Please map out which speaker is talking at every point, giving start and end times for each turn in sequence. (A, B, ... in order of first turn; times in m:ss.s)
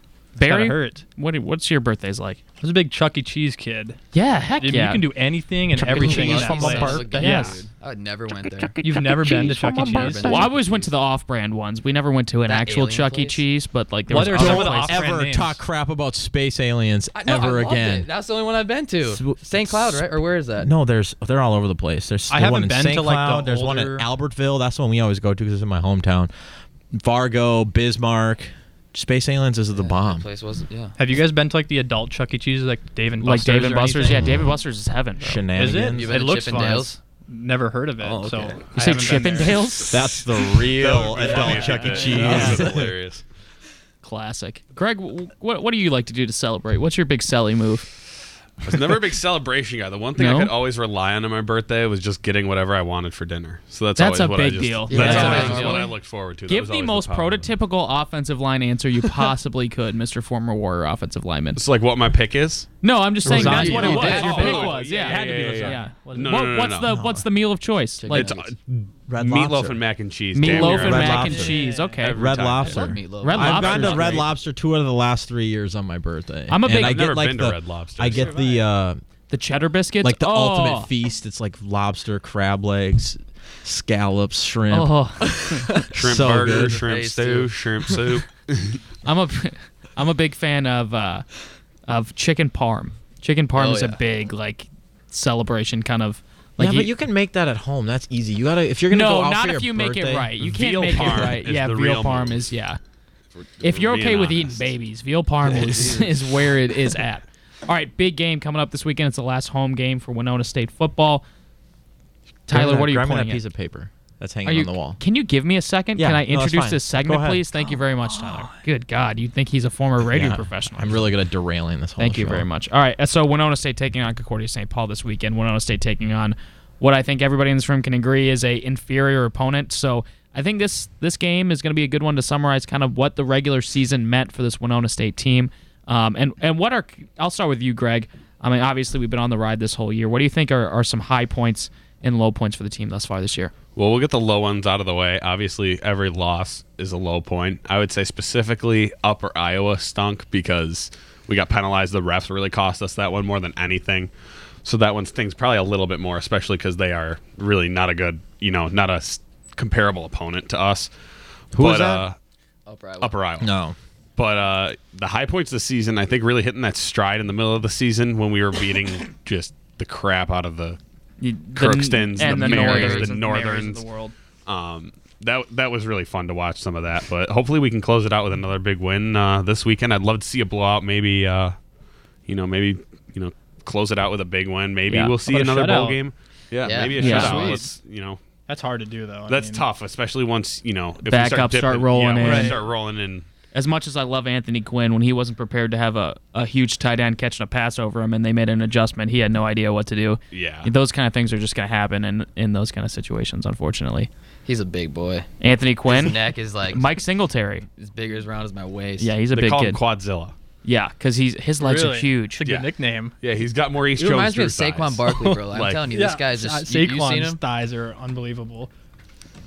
0:00.4-0:01.0 A
0:00.4-0:02.4 B
0:02.6-0:04.0 A
0:04.1-0:05.1 B
0:04.6-0:07.6 A
0:05.7-0:10.9 C
0:05.8-0:07.2 D
0:06.0-0:06.4 B
0:07.2-0:07.6 B
0:08.8-0:10.5 A
0:09.7-0:10.1 D
0:10.0-0:15.0 B
0:12.5-0:13.4 C
0:14.1-0:15.6 A
0:14.3-0:18.1 D
0:17.1-0:20.7 C
0:19.0-0:26.3 D
0:22.3-0:24.1 A
0:26.9-0:30.2 D
0:29.7-0:31.0 C
0:31.0-0:34.4 A
0:33.2-0:35.4 B
0:35.2-0:36.1 D
0:35.6-0:39.6 A
0:35.9-0:36.9 C
0:38.0-0:38.6 D
0:38.7-0:40.1 B
0:38.8-0:39.1 E
0:39.9-0:42.9 D
0:40.5-0:43.2 E
0:40.9-0:42.6 A
0:42.3-0:42.6 B
0:44.0-0:47.9 B
0:48.6-0:57.5 E
0:50.2-0:50.5 B
0:54.0-0:55.9 B
0:54.9-0:55.4 D
0:54.9-0:55.9 C
0:55.1-0:55.6 A
0:56.5-1:01.6 B
1:01.6-1:02.7 E
1:02.8-1:08.3 B
1:03.2-1:06.5 A
1:03.3-1:04.7 C
1:03.6-1:06.9 E
1:06.8-1:07.2 D
1:08.0-1:08.5 C
1:08.1-1:12.9 E
1:09.1-1:09.8 D
1:10.3-1:12.2 B
1:10.4-1:11.6 D
1:10.5-1:12.0 A
1:12.1-1:19.0 D
1:12.5-1:14.3 C
1:13.2-1:14.2 B
1:16.5-1:17.0 B
1:16.6-1:18.3 E
1:18.1-1:18.6 A
1:19.3-1:20.9 B
1:20.0-1:25.0 D
1:24.7-1:25.6 B
1:25.3-1:27.5 C
1:25.9-1:26.8 D
1:25.9-1:28.8 E
1:29.0-1:31.3 B
1:31.9-1:36.9 B
1:33.5-1:34.0 C
1:36.6-1:40.3 D
1:38.9-1:42.8 B
1:40.4-1:42.4 E
1:43.4-1:44.7 E
1:43.6-1:51.2 B
1:45.5-1:45.9 E
1:52.5-1:53.4 B
1:52.5-1:55.0 D
1:54.4-2:01.1 B
1:56.0-1:57.7 D
2:00.1-2:02.4 D
2:02.0-2:23.5 B
2:23.8-2:34.1 E
2:34.6-2:40.9 E
2:41.5-2:42.0 D
2:41.5-2:42.2 E
2:42.6-2:43.1 C
2:43.0-2:43.5 E
2:43.4-2:43.8 D
2:44.2-2:50.8 E
2:51.2-2:54.1 B
2:51.6-2:53.8 E
2:52.2-2:52.8 A
2:52.3-2:53.1 C
2:54.4-3:01.5 E
3:02.3-3:08.2 E
3:04.9-3:05.1 B
3:05.2-3:06.0 A
3:06.6-3:07.6 C
3:06.8-3:07.7 A
3:07.0-3:07.4 B
3:08.5-3:09.6 A
3:09.3-3:13.2 E
3:11.0-3:12.5 B
3:12.2-3:12.6 A
3:13.5-3:24.1 B
3:20.3-3:20.7 E
3:24.4-3:25.3 C
3:25.4-3:27.6 B
3:25.8-3:27.0 C
3:27.8-3:29.1 C
3:29.0-3:29.8 B
3:29.3-3:30.3 E
3:30.6-3:32.4 B
3:31.6-3:33.1 A
3:32.4-3:32.7 E
3:33.2-3:35.8 E
3:34.0-3:37.4 C
3:35.1-3:38.7 A